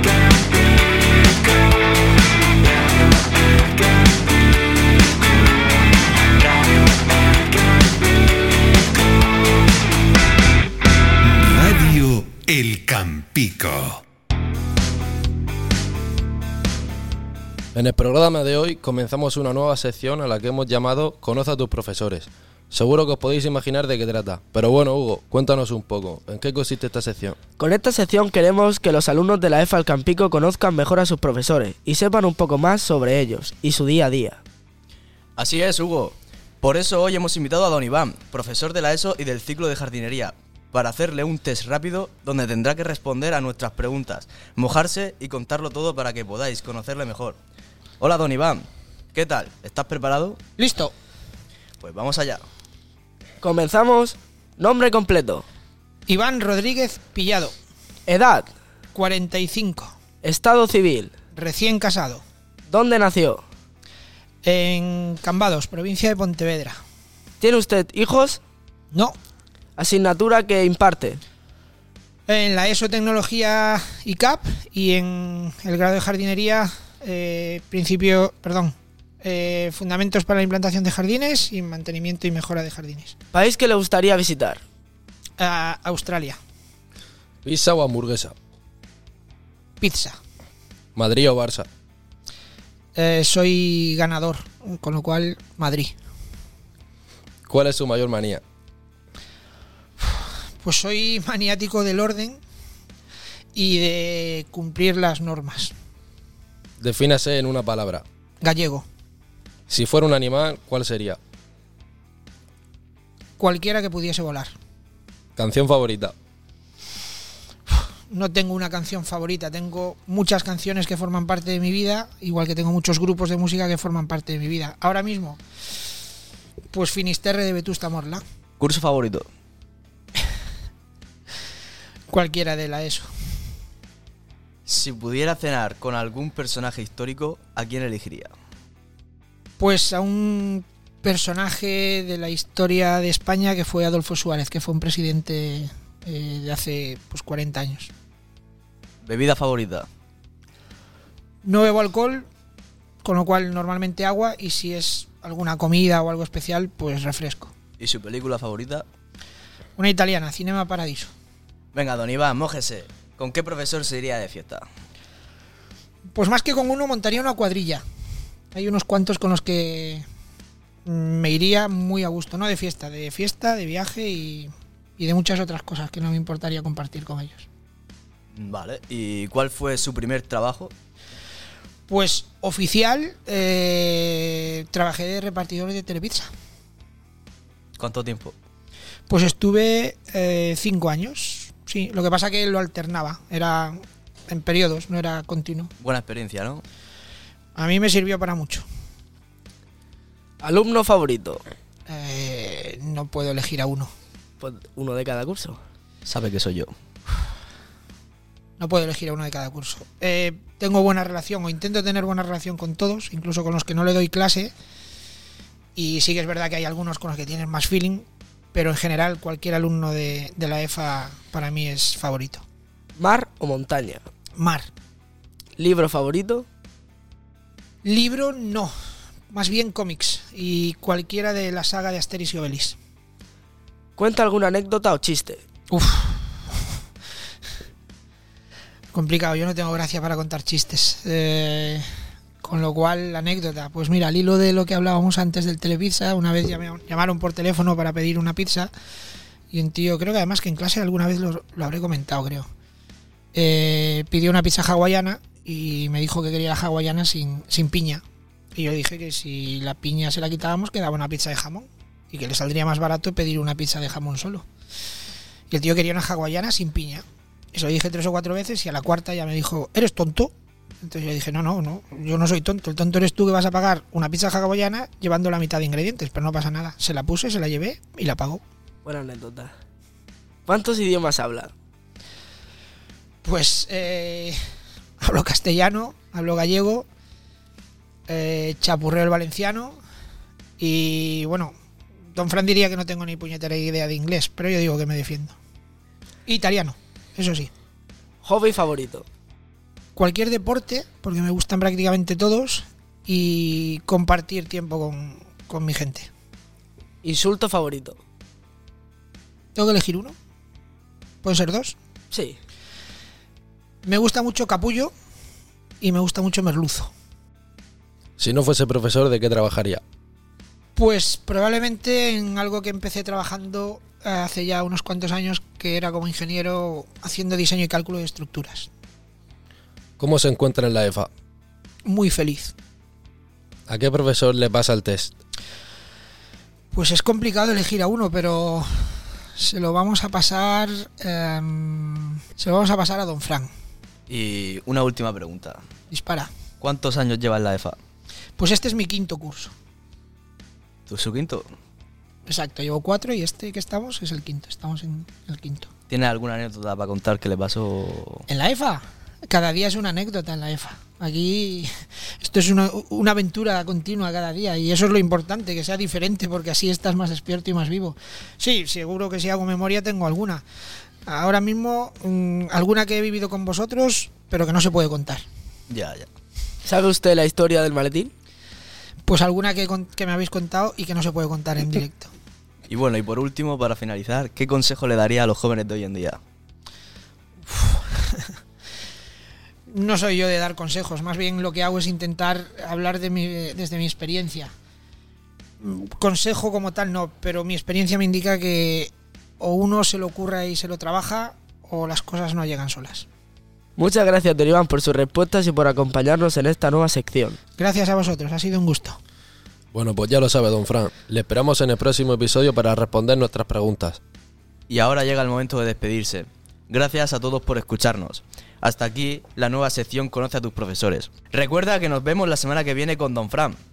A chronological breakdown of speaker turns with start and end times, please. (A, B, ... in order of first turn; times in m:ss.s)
0:11.2-0:14.0 A
0:17.7-0:27.4 B
0:27.6-0:34.4 C
0:35.4-0:47.4 D
0:48.0-0:50.4 D
0:50.6-0:50.9 E
0:51.8-0:52.4 D
0:53.4-0:55.4 C
0:56.1-0:57.5 E
0:58.1-0:58.5 C
0:58.9-0:59.9 E
1:00.2-1:01.1 C
1:01.3-1:02.2 E
1:02.7-1:03.4 C
1:04.4-1:06.8 E
1:07.4-1:08.4 C
1:09.8-1:11.2 C
1:12.3-1:23.2 E
1:23.3-1:24.6 C
1:25.4-1:26.4 E
1:27.4-1:28.3 B
1:29.8-1:30.2 E
1:30.9-1:31.7 B
1:32.9-1:35.9 E
1:37.5-1:38.4 B
1:40.6-1:42.4 E
1:43.5-1:45.7 E
1:46.8-1:48.0 B
1:48.4-1:48.8 E
1:49.7-1:51.2 B
1:53.4-1:54.5 E
1:55.4-1:56.1 B
1:58.1-2:05.4 E
2:06.7-2:08.2 E
2:08.6-2:09.3 D
2:12.1-2:13.1 E
2:14.7-2:18.3 D
2:19.6-2:27.9 E
2:29.0-2:29.8 D
2:31.4-2:32.2 E
2:33.0-2:37.5 E
2:37.8-2:38.8 D
2:39.8-2:41.1 E
2:41.7-2:44.6 D
2:46.1-2:47.8 E
2:48.5-2:50.0 E
2:50.8-2:57.4 E
2:58.3-3:00.7 D
3:01.9-3:06.3 E
3:07.8-3:08.3 D
3:09.1-3:15.7 E
3:15.8-3:16.6 D
3:17.5-3:18.6 E
3:20.4-3:21.4 C
3:21.9-3:23.9 E
3:24.4-3:25.6 C
3:26.0-3:26.7 D
3:28.6-3:34.5 E
3:35.8-3:42.4 E
3:43.0-3:44.0 C
3:44.4-3:44.7 E
3:45.6-3:46.5 C
3:47.8-3:48.7 E
3:49.3-3:52.8 E
3:54.0-3:55.4 C
3:55.7-3:56.3 E
3:58.9-4:01.8 E
4:02.4-4:08.7 E
4:09.5-4:12.5 E
4:13.3-4:18.0 E
4:18.5-4:24.4 E
4:25.5-4:38.4 E
4:38.8-4:39.5 C
4:40.4-4:41.5 C
4:43.2-4:44.4 E
4:45.0-4:46.9 E
4:48.1-4:49.8 E
4:50.6-4:51.5 E
4:52.1-4:55.4 E
4:56.2-4:57.5 E
4:58.2-4:59.0 C
5:00.0-5:06.1 E
5:07.0-5:08.0 C
5:09.5-5:10.1 E
5:11.2-5:11.8 E
5:12.1-5:12.4 C
5:13.8-5:14.9 E
5:15.8-5:16.9 E
5:18.2-5:19.8 B
5:20.7-5:28.7 E
5:30.0-5:31.1 B
5:31.8-5:32.5 E
5:33.7-5:35.1 B
5:36.7-5:43.5 E
5:44.1-5:45.6 D
5:45.9-5:46.3 E
5:46.6-5:47.8 D
5:48.4-5:49.5 E
5:50.9-5:51.5 D
5:52.2-5:55.7 E
5:55.9-5:58.2 D
5:58.3-6:10.4 E
6:11.0-6:15.2 E
6:15.7-6:16.1 D
6:16.6-6:18.1 C
6:19.1-6:22.1 E
6:22.7-6:26.2 D
6:27.5-6:28.3 E
6:29.7-6:34.5 E
6:35.6-6:43.0 E
6:43.8-6:47.4 C
6:47.6-6:49.0 E
6:49.7-6:54.0 B
6:54.7-7:03.6 D